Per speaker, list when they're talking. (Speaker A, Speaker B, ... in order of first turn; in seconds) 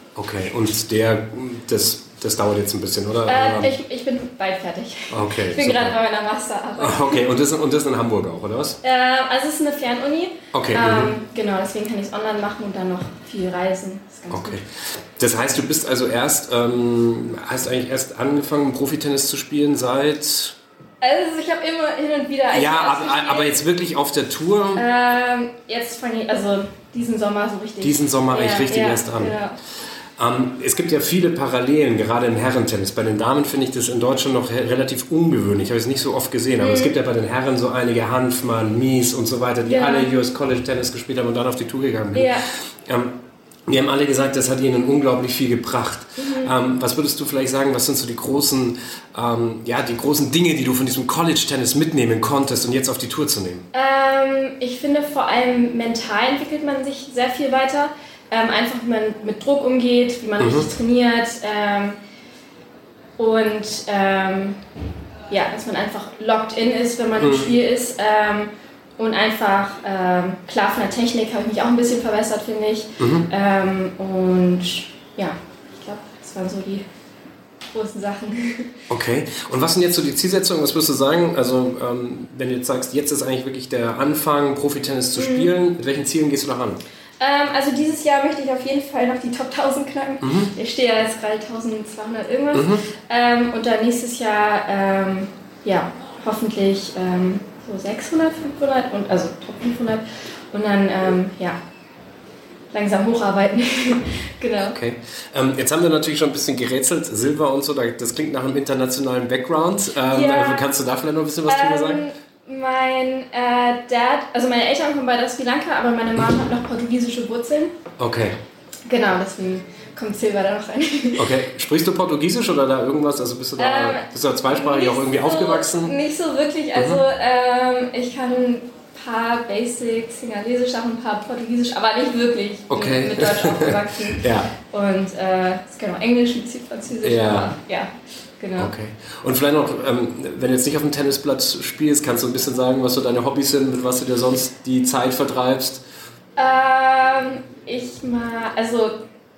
Speaker A: 0.2-3.7, 5.1-6.0, 6.8-8.8, 10.5-11.1, 14.3-20.6, 22.5-24.8, 27.8-29.3, 30.2-53.7, 60.4-60.7, 67.2-67.6, 73.0-73.3, 78.9-86.8, 90.2-90.5, 92.5-92.8, 104.7-112.0, 118.0-118.4, 121.2-126.0, 126.8-127.0, 132.7-134.5, 137.0-137.5, 138.6-145.8
Speaker B: 3.3-7.2, 8.8-14.6, 21.0-23.6, 24.8-29.6, 36.6-36.9, 39.7-40.1, 42.1-42.4, 46.2-46.5, 53.7-62.0, 63.2-64.6, 65.3-76.9, 77.7-78.7, 85.1-85.5, 87.2-101.6, 102.7-104.8, 110.1-110.7, 111.5-117.7, 118.9-121.3, 123.6-138.7, 146.4-149.0